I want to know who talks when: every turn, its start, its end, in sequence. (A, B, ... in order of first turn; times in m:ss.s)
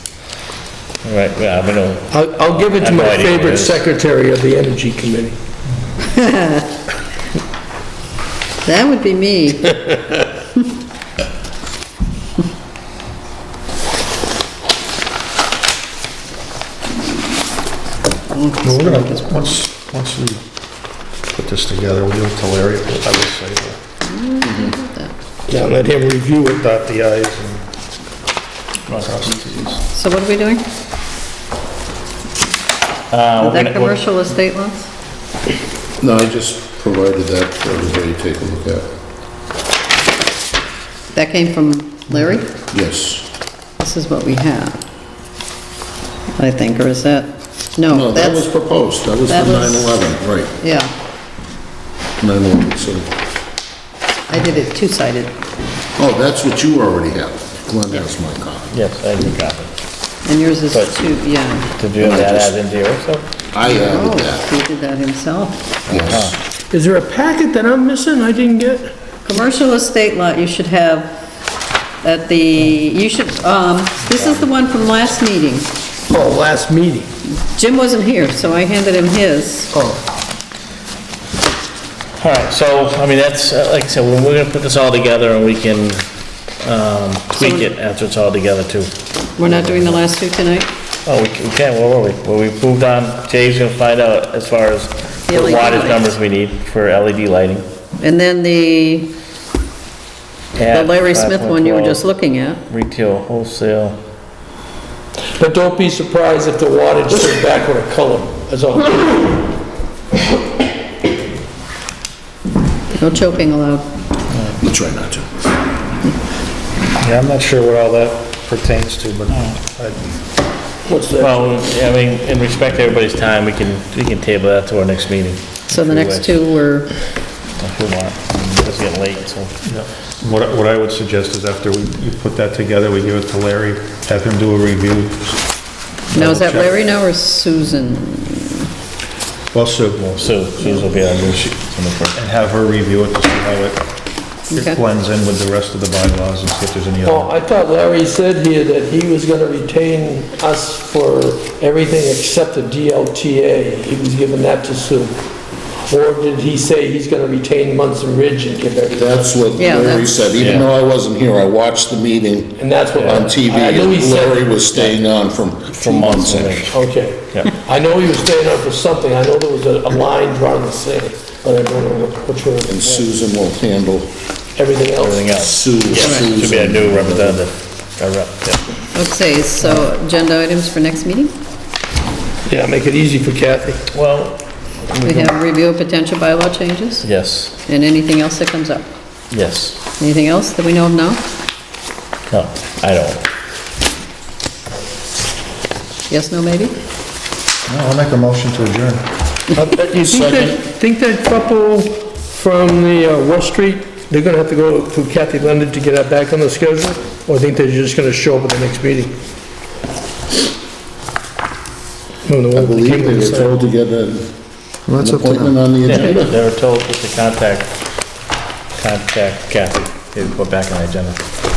0:01.0-0:03.8 A
0:02.1-0:05.4 B
0:06.0-0:06.7 C
0:08.6-0:09.9 C
0:18.3-0:19.5 C
0:18.6-0:20.4 D
0:21.3-0:23.8 D
0:24.0-0:25.1 C
0:24.4-0:24.7 E
0:25.5-0:26.6 B
0:26.6-0:27.7 D
0:28.9-0:29.8 A
0:29.0-0:29.8 D
0:29.9-0:30.6 C
0:33.1-0:34.0 A
0:33.4-0:34.9 C
0:36.0-0:38.8 E
0:41.1-0:42.5 C
0:42.7-0:43.2 E
0:43.8-0:44.8 C
0:46.4-0:48.5 C
0:47.9-0:50.6 E
0:49.2-0:50.1 C
0:50.6-0:50.9 C
0:52.2-0:53.1 E
0:54.3-0:55.3 C
0:56.0-0:58.7 E
0:58.7-0:59.7 A
1:00.2-1:01.7 C
1:00.7-1:01.0 A
1:01.7-1:03.2 A
1:02.0-1:02.6 E
1:03.5-1:04.4 E
1:03.6-1:05.8 C
1:05.9-1:06.4 A
1:05.9-1:06.3 E
1:06.7-1:08.9 B
1:09.2-1:11.2 C
1:12.0-1:15.7 C
1:16.1-1:17.1 B
1:17.2-1:19.7 C
1:19.7-1:20.0 B
1:22.2-1:26.0 A
1:26.6-1:28.9 A
1:27.3-1:27.7 C
1:29.4-1:30.7 C
1:29.4-1:30.0 A
1:31.0-1:37.7 A
1:35.3-1:36.1 C
1:38.0-1:39.1 C
1:40.6-1:42.0 A
1:40.7-1:42.6 C
1:42.7-1:44.0 A
1:45.4-1:49.4 B
1:52.9-1:53.8 C
1:54.6-1:55.2 E
1:57.0-2:00.1 D
1:59.3-1:59.6 A
2:00.8-2:01.5 B
2:01.2-2:06.4 A
2:05.7-2:06.9 C
2:07.6-2:09.5 A
2:09.7-2:15.4 D
2:16.1-2:16.8 D
2:16.1-2:18.7 C
2:19.5-2:20.4 D
2:20.2-2:22.2 A
2:22.2-2:23.8 D
2:24.5-2:24.8 C
2:24.5-2:27.3 D
2:27.0-2:35.2 B
2:35.9-2:39.4 B
2:38.9-2:46.7 E
2:39.5-2:40.1 C
2:40.4-2:40.7 A
2:42.6-2:44.5 B
2:45.7-2:46.8 A
2:46.7-2:53.0 B
2:52.7-2:54.1 E
2:54.6-2:55.4 B
2:55.0-2:58.6 A
2:55.3-2:57.4 E
2:56.0-2:56.3 C
2:58.9-3:01.3 C
3:02.5-3:03.8 B
3:03.9-3:05.3 A
3:05.0-3:07.1 C
3:07.0-3:07.5 A
3:07.6-3:08.9 C
3:09.3-3:09.8 A
3:10.0-3:11.2 C
3:12.3-3:13.2 A
3:16.1-3:16.7 C
3:17.7-3:19.0 D
3:19.6-3:29.2 B
3:20.0-3:20.6 E
3:32.2-3:33.7 B
3:32.5-3:34.3 E
3:34.9-3:35.5 D
3:35.0-3:36.4 E
3:35.8-3:37.7 A
3:38.8-3:41.2 A